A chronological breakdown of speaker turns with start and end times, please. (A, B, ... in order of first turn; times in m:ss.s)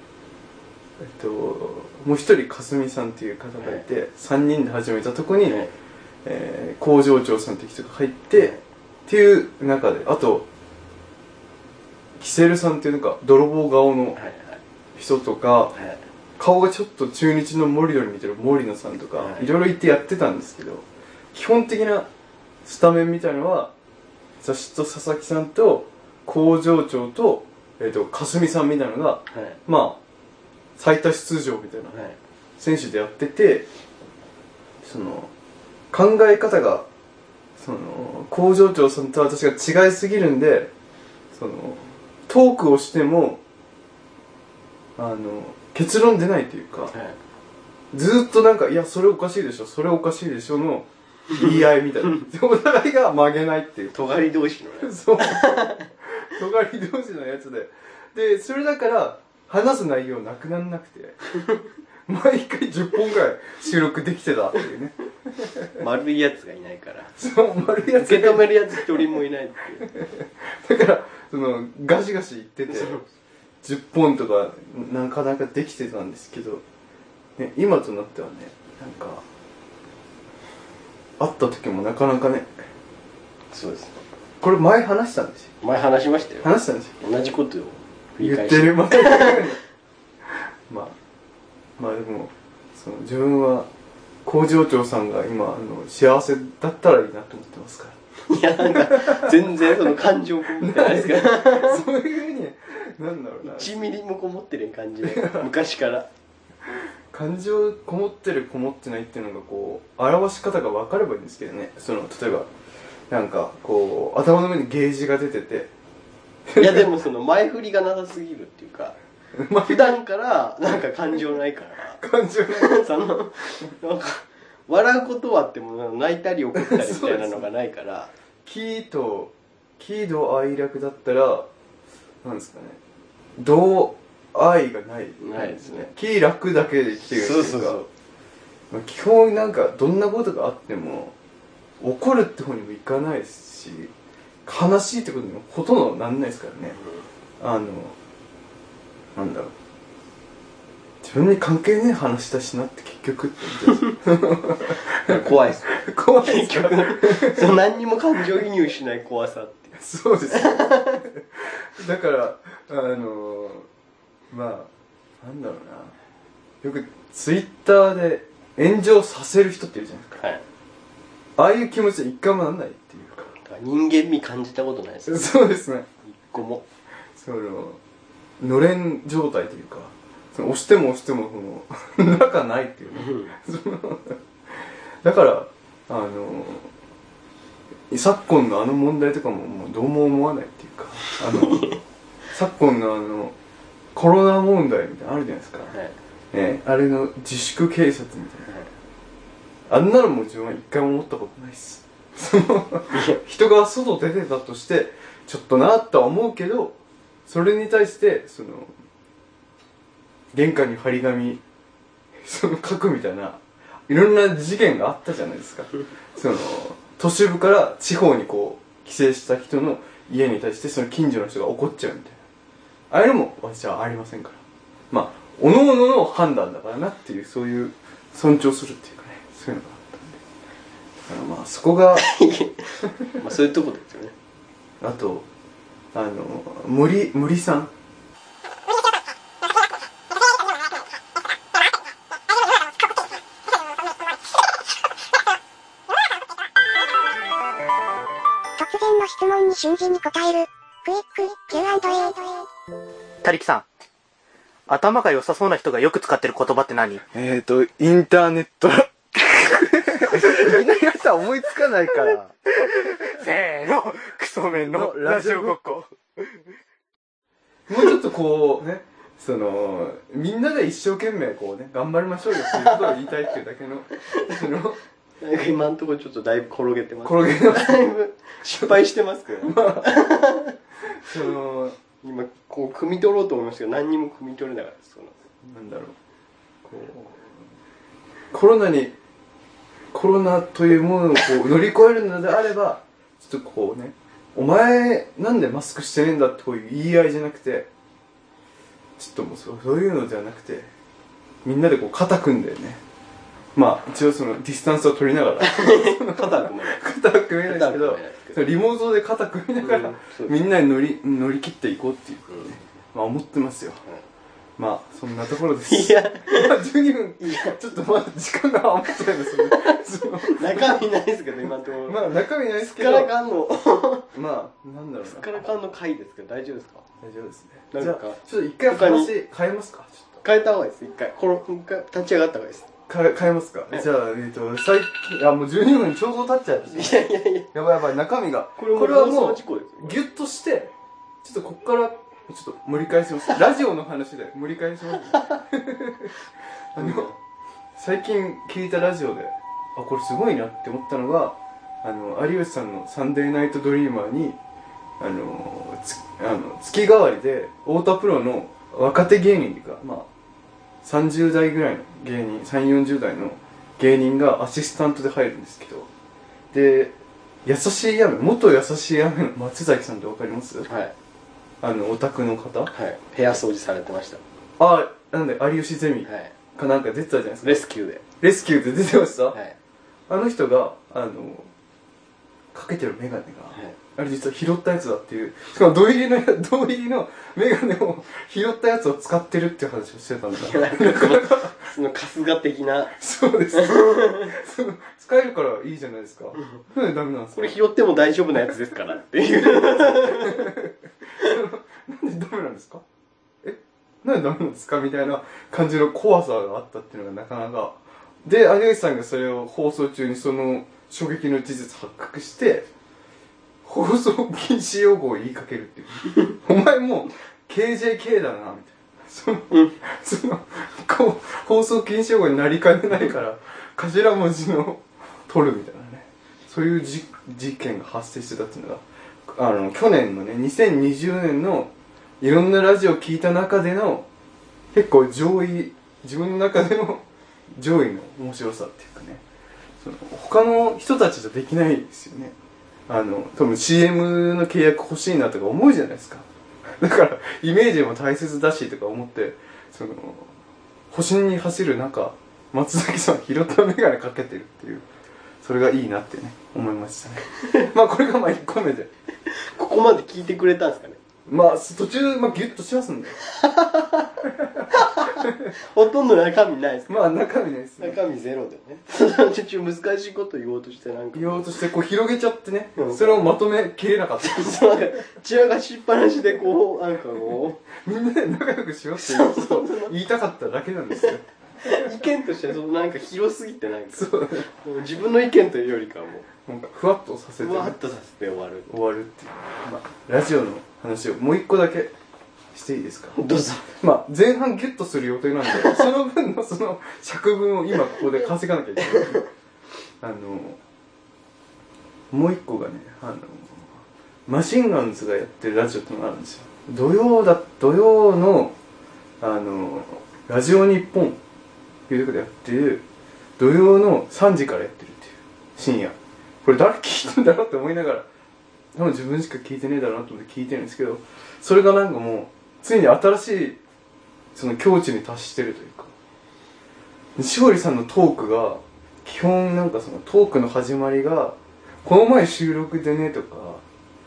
0:01.0-0:05.7 A
0:05.5-0:05.7 B
0:06.2-0:08.6 A
0:08.4-0:08.6 B
0:09.1-0:10.5 A
0:12.2-0:14.2 A
0:14.2-0:14.6 B
0:15.0-0:15.7 A
0:15.7-0:16.0 B
0:16.4-0:22.1 A
0:19.2-0:19.5 B
0:22.6-0:23.7 A
0:24.4-0:30.0 A
0:29.3-0:29.6 B
0:30.8-0:32.0 A
0:31.9-0:32.2 B
0:32.6-0:33.7 A
0:34.8-0:35.3 A
0:35.9-0:36.9 A
0:37.6-0:40.7 A
0:41.3-0:43.4 A
0:45.0-0:46.9 A
0:46.9-0:47.2 B
0:47.9-0:54.0 A
0:51.3-0:52.2 B
0:53.9-0:55.9 B
0:54.8-1:01.2 A
1:02.1-1:05.7 A
1:05.8-1:07.1 B
1:07.2-1:09.0 A
1:08.0-1:09.9 B
1:09.8-1:13.0 A
1:12.7-1:13.0 B
1:13.6-1:16.6 A
1:17.4-1:19.2 A
1:21.2-1:22.5 A
1:23.5-1:24.0 B
1:24.4-1:25.5 A
1:25.6-1:29.5 B
1:26.4-1:27.0 A
1:28.2-1:29.6 A
1:30.3-1:31.0 A
1:31.8-1:33.7 A
1:34.2-1:38.0 A
1:38.3-1:41.9 B
1:38.6-1:39.6 A
1:40.6-1:43.8 A
1:43.4-1:46.1 B
1:45.0-1:45.5 A
1:47.1-1:52.5 A
1:53.1-1:55.7 A
1:56.5-1:56.9 A
1:56.6-1:59.0 B
1:59.4-2:00.0 A
1:59.6-2:08.1 B
2:02.0-2:02.9 A
2:06.5-2:07.5 A
2:08.4-2:11.5 A
2:12.2-2:12.8 A
2:13.4-2:17.8 A
2:15.2-2:15.9 B
2:17.1-2:17.9 B
2:18.7-2:21.2 A
2:21.8-2:23.9 A
2:24.4-2:26.8 A
2:26.8-2:27.0 B
2:27.4-2:28.0 A
2:29.2-2:29.5 A
2:31.0-2:37.6 A
2:34.9-2:39.8 B
2:39.8-2:43.7 A
2:40.3-2:41.0 B
2:44.3-2:44.7 A
2:45.2-2:46.0 A
2:46.6-2:50.2 A
2:51.4-2:53.3 A
2:53.4-2:55.3 B
2:55.1-2:55.9 A
2:56.1-2:56.7 B
2:57.2-2:57.8 A
2:58.4-3:04.2 A
3:03.0-3:03.3 B
3:05.0-3:06.7 A
3:07.9-3:11.8 A
3:11.3-3:11.8 B
3:12.3-3:13.4 A
3:13.9-3:15.7 A
3:15.7-3:16.0 B
3:16.3-3:18.5 A
3:19.7-3:28.7 A
3:22.9-3:23.2 B
3:30.3-3:31.4 A
3:32.2-3:42.2 A
3:42.9-3:50.2 A
3:51.1-3:52.1 A
3:52.0-3:54.1 B
3:54.8-3:55.3 A
3:55.9-3:57.7 A
4:08.6-4:12.5 C
4:13.2-4:13.7 D
4:14.7-4:17.0 D
4:17.1-4:23.1 A
4:22.7-4:25.9 D
4:24.6-4:25.6 A
4:27.7-4:34.8 A
4:32.5-4:33.0 B
4:34.1-4:34.3 B
4:35.2-4:40.6 B
4:37.0-4:37.9 A
4:39.4-4:40.0 A
4:40.9-4:41.8 A
4:42.0-4:45.2 B
4:45.4-4:46.0 A
4:46.6-4:47.4 A
4:48.3-4:49.0 A
4:49.9-4:57.7 A
4:59.0-5:00.7 A
5:01.4-5:02.8 A
5:03.6-5:13.8 A
5:05.4-5:06.8 B
5:07.4-5:08.4 B
5:09.6-5:10.4 B
5:14.6-5:20.8 A
5:15.7-5:16.6 B
5:17.2-5:17.6 B
5:19.2-5:24.1 B
5:21.9-5:23.1 A
5:24.1-5:25.4 A
5:25.0-5:26.8 B
5:27.0-5:30.2 A
5:27.7-5:29.1 B
5:30.2-5:32.7 B
5:32.9-5:46.1 A
5:36.7-5:37.5 B
5:38.6-5:40.0 B
5:46.8-5:47.1 A
5:46.8-5:47.2 B
5:47.8-5:54.4 A
5:55.0-6:00.1 A
6:00.8-6:05.9 A
6:06.5-6:10.7 A
6:10.7-6:10.9 B
6:11.6-6:12.7 A
6:12.7-6:14.2 B
6:14.6-6:17.6 A
6:16.0-6:16.3 B
6:17.4-6:18.0 B
6:18.2-6:19.4 A
6:20.1-6:21.5 A
6:22.5-6:31.6 A
6:30.4-6:33.0 B
6:33.0-6:37.6 A
6:33.5-6:34.4 B
6:37.4-6:40.7 B
6:39.4-6:42.8 A
6:43.4-6:52.7 A
6:53.6-7:14.1 A
7:14.7-7:19.2 A
7:19.8-7:22.4 A
7:22.9-7:26.3 A
7:26.8-7:30.3 A
7:30.9-7:34.9 A
7:35.4-7:38.9 A
7:37.4-7:37.7 B
7:39.3-7:41.0 B
7:41.3-7:43.2 A
7:43.3-7:44.2 B
7:44.4-7:45.4 A
7:44.7-7:47.1 B
7:46.9-7:48.0 A
7:47.8-7:51.6 B
7:51.1-7:54.6 A
7:52.8-7:53.3 B
7:54.2-7:57.6 B
7:57.7-8:01.9 A
7:59.0-7:59.9 B
8:01.6-8:06.3 B
8:03.9-8:04.5 A
8:06.5-8:07.8 A
8:07.4-8:08.7 B
8:08.7-8:11.9 A
8:12.5-8:19.2 A
8:13.2-8:13.7 B
8:20.0-8:20.6 A
8:22.1-8:23.8 A
8:24.3-8:28.6 A
8:29.2-8:31.2 A
8:31.9-8:32.8 A
8:33.4-8:38.1 A
8:38.7-8:43.6 A
8:44.4-8:45.9 A
8:47.2-8:53.6 A